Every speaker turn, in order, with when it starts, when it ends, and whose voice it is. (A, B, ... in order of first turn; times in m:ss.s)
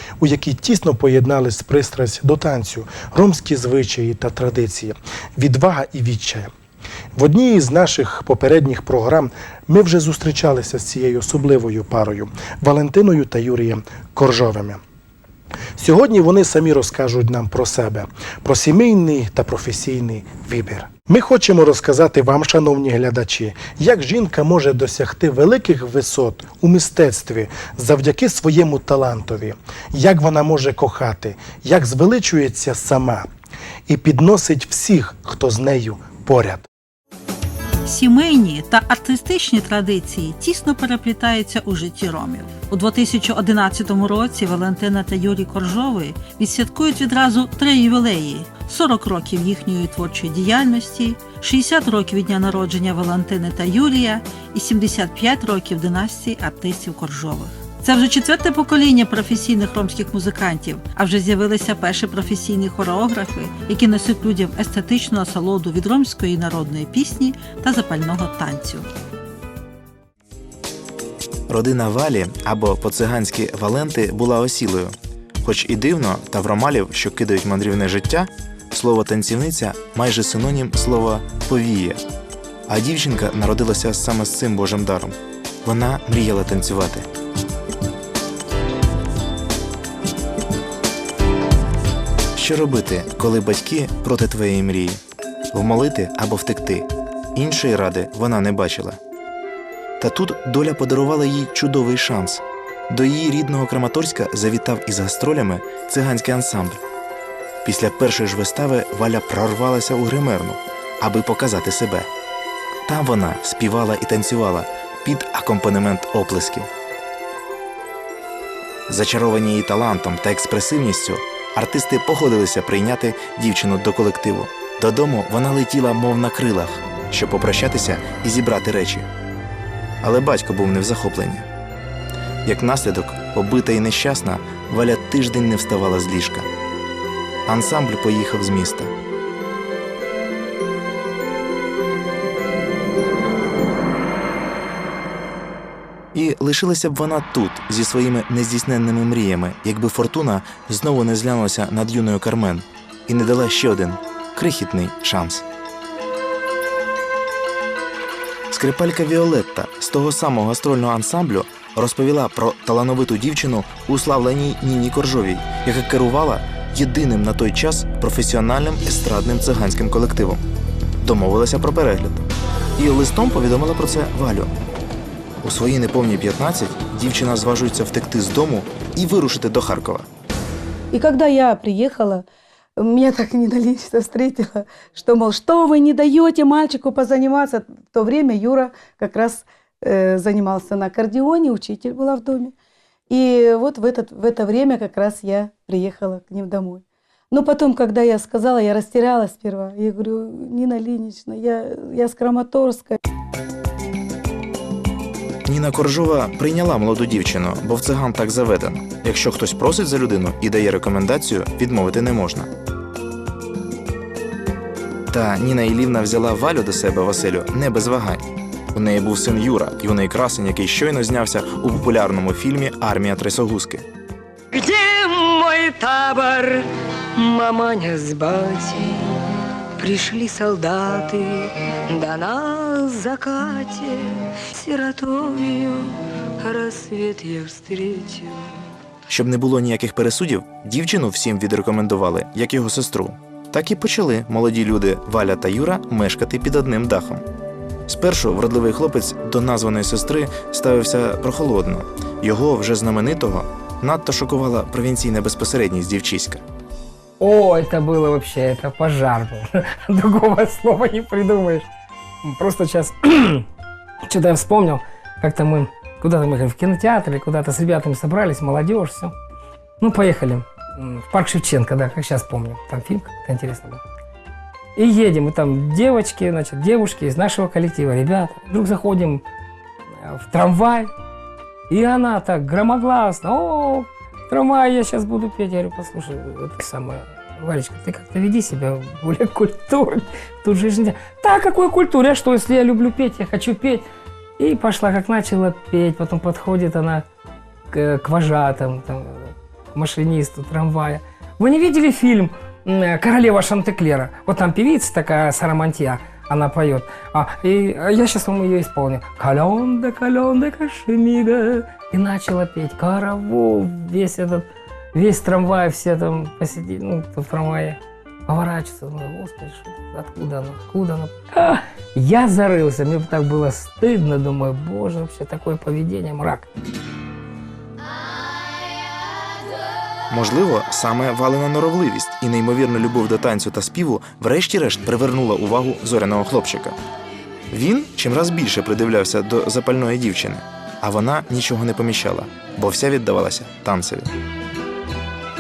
0:00.2-0:06.5 A
0:07.1-0:14.8 A
0:15.8-0:33.3 A
0:33.9-0:36.7 A
0:37.8-1:08.9 B
1:11.5-1:22.0 C
1:22.7-1:27.1 C
1:32.4-1:35.0 C
1:35.5-1:39.0 C
1:40.0-1:46.8 C
1:47.6-1:52.1 C
1:52.8-1:56.7 C
1:58.9-2:09.1 C
2:10.0-2:11.5 C
2:12.4-2:16.5 C
2:17.5-2:18.9 C
2:26.1-2:35.4 C
2:38.5-2:50.4 C
2:51.0-2:54.5 C
2:55.4-3:00.1 C
3:00.9-3:02.2 D
3:02.8-3:12.5 D
3:13.1-3:23.0 D
3:25.4-3:32.5 C
3:35.1-3:43.8 C
3:44.5-3:49.1 E
3:49.8-3:58.5 E
3:59.1-4:07.2 C
4:07.9-4:16.4 C
4:17.2-4:19.0 F
4:17.5-4:21.7 G
4:20.1-4:21.2 F
4:22.3-4:23.0 G
4:22.6-4:23.2 F
4:24.1-4:24.5 F
4:24.1-4:26.7 G
4:25.6-4:28.8 F
4:27.5-4:29.1 G
4:29.8-4:30.2 F
4:29.9-4:31.2 G
4:31.1-4:33.8 F
4:32.1-4:33.7 G
4:34.8-4:39.2 F
4:37.0-4:37.3 G
4:40.2-4:40.7 F
4:41.7-4:53.8 F
4:54.4-4:57.0 F
4:57.7-5:26.4 F
5:30.1-5:36.8 C
5:37.5-5:44.1 C